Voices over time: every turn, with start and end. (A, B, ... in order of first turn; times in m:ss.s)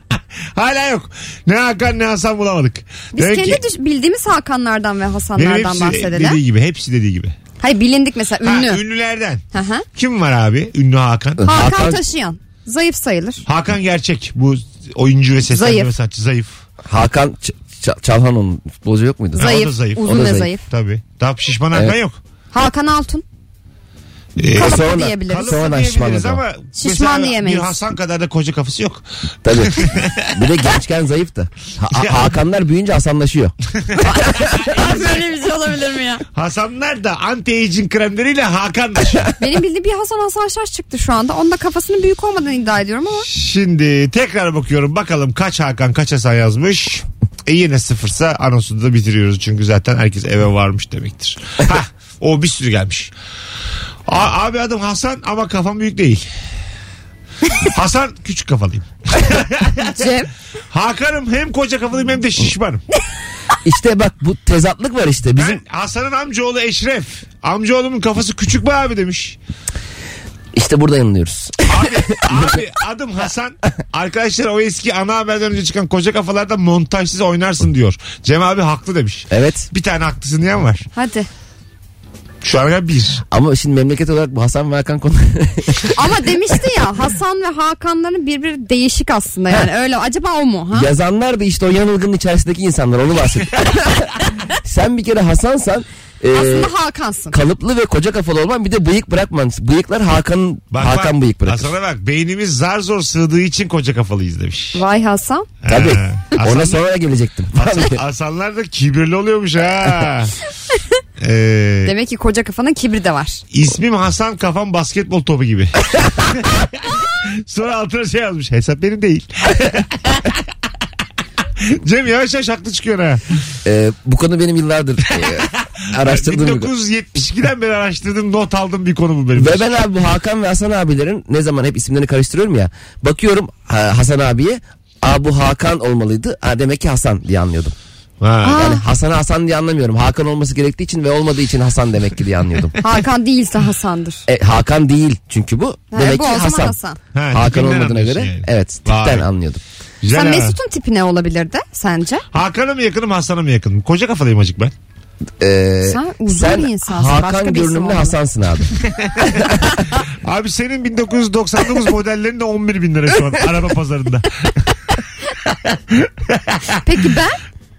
0:00.5-0:03.6 A
0:03.1-0:06.4 B
0:05.4-0:07.4 A
0:07.6-0:08.8 B
0:08.4-0:11.5 A
0:09.5-0:09.8 B
0:11.4-0:12.0 C
0:11.4-0:13.4 B
0:13.4-0:16.6 A
0:15.5-0:15.9 B
0:16.8-0:20.5 C
0:19.4-0:22.2 A
0:19.4-0:20.6 B
0:22.5-0:23.2 B
0:24.4-0:29.0 A
0:24.5-0:25.6 B
0:24.5-0:26.4 C
0:26.8-0:27.8 B
0:29.4-0:33.5 C
0:29.6-0:30.5 A
0:31.9-0:32.3 A
0:33.8-0:35.1 A
0:34.0-0:36.2 B
0:36.3-0:39.4 A
0:39.4-0:43.3 B
0:43.3-0:53.1 A
0:54.1-0:56.3 A
0:57.6-0:59.8 A
0:59.8-1:00.3 B
1:00.7-1:02.8 A
1:03.6-1:05.6 C
1:05.4-1:09.4 A
1:10.6-1:12.6 C
1:11.6-1:20.8 A
1:19.3-1:19.7 C
1:20.9-1:21.3 B
1:22.4-1:23.2 A
1:23.3-1:25.9 C
1:25.9-1:30.9 B
1:30.7-1:36.7 C
1:36.3-1:37.4 B
1:37.3-1:41.7 C
1:40.7-1:44.8 A
1:44.7-1:45.5 B
1:45.6-1:46.9 A
1:45.7-1:48.0 C
1:47.6-1:50.3 A
1:51.2-1:51.9 A
1:51.8-1:53.4 B
1:53.5-2:00.4 A
2:01.6-2:03.2 A
2:03.6-2:06.7 C
2:05.1-2:09.7 A
2:09.4-2:17.7 C
2:18.2-2:18.7 A
2:18.4-2:18.8 B
2:18.5-2:22.7 C
2:22.8-2:24.2 B
2:24.3-2:26.8 C
2:25.9-2:27.0 B
2:27.1-2:29.3 A
2:27.3-2:29.6 C
2:30.0-2:30.6 A
2:30.1-2:32.2 B
2:32.3-2:34.7 A
2:35.4-2:38.7 C
2:35.8-2:38.2 B
2:38.9-2:44.7 A
2:46.0-2:46.6 A
2:46.8-2:47.4 B